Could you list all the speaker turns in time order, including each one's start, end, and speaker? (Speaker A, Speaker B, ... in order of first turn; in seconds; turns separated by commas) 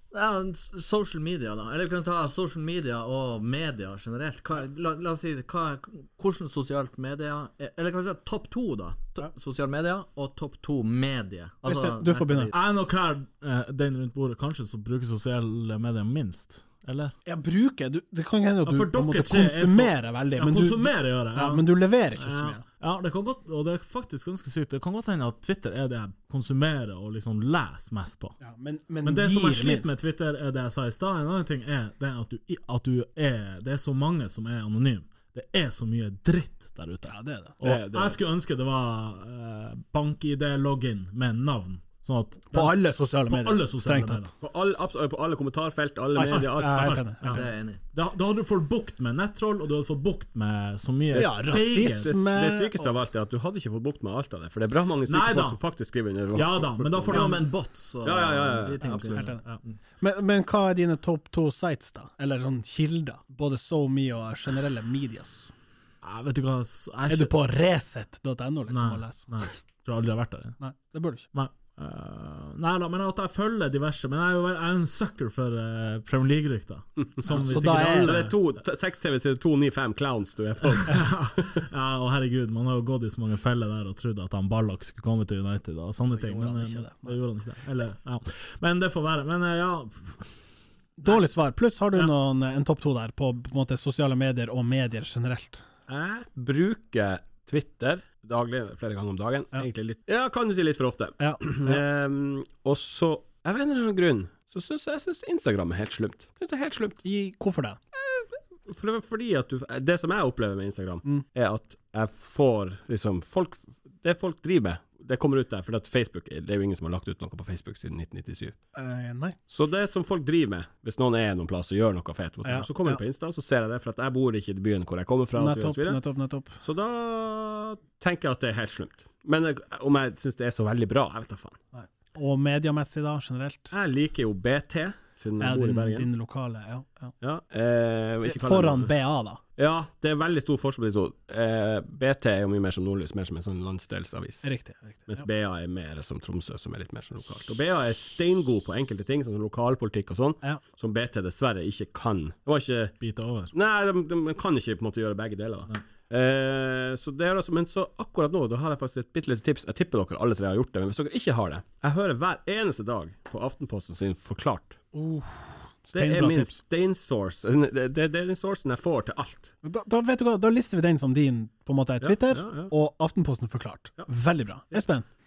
Speaker A: 0.1-12.6, Speaker B: 11.6-12.5, Speaker C: 12.5-17.1, Speaker B: 17.2-22.6, Speaker C: 18.6-28.4, Speaker B: 28.4-29.9, Speaker C: 29.0-44.3, Speaker B: 37.1-37.6, Speaker D: 37.6-38.2, Speaker B: 42.5-44.3, Speaker D: 44.4-47.0, Speaker B: 46.1-47.4, Speaker C: 46.2-52.1, Speaker A: 47.3-47.8, Speaker B: 51.1-52.9, Speaker D: 51.1-57.4, Speaker C: 55.0-55.6, Speaker C: 56.3-57.5, Speaker A: 57.1-59.4, Speaker D: 58.0-59.3, Speaker B: 59.1-59.4, Speaker B: 60.0-65.5, Speaker C: 66.0-67.3, Speaker B: 67.1-69.4, Speaker C: 68.7-70.6, Speaker B: 70.6-71.2, Speaker C: 71.3-78.4, Speaker D: 77.2-81.6, Speaker B: 77.2-78.3, Speaker C: 80.7-90.3, Speaker B: 86.1-87.2, Speaker B: 91.0-95.6, Speaker D: 95.9-107.0, Speaker B: 101.2-101.8, Speaker B: 107.0-107.8, Speaker D: 108.1-118.5, Speaker B: 118.7-119.4, Speaker D: 119.5-126.0, Speaker B: 122.4-123.0, Speaker B: 125.3-126.6, Speaker D: 126.6-131.6, Speaker B: 131.7-133.7, Speaker D: 133.7-136.1, Speaker B: 135.4-137.1, Speaker D: 137.2-138.9, Speaker B: 138.2-139.4, Speaker D: 139.6-144.4, Speaker B: 144.4-145.2, Speaker D: 145.1-152.9, Speaker C: 153.0-153.5, Speaker D: 153.5-164.8, Speaker B: 164.9-166.6, Speaker D: 165.9-169.5, Speaker B: 169.6-175.1, Speaker D: 172.0-172.7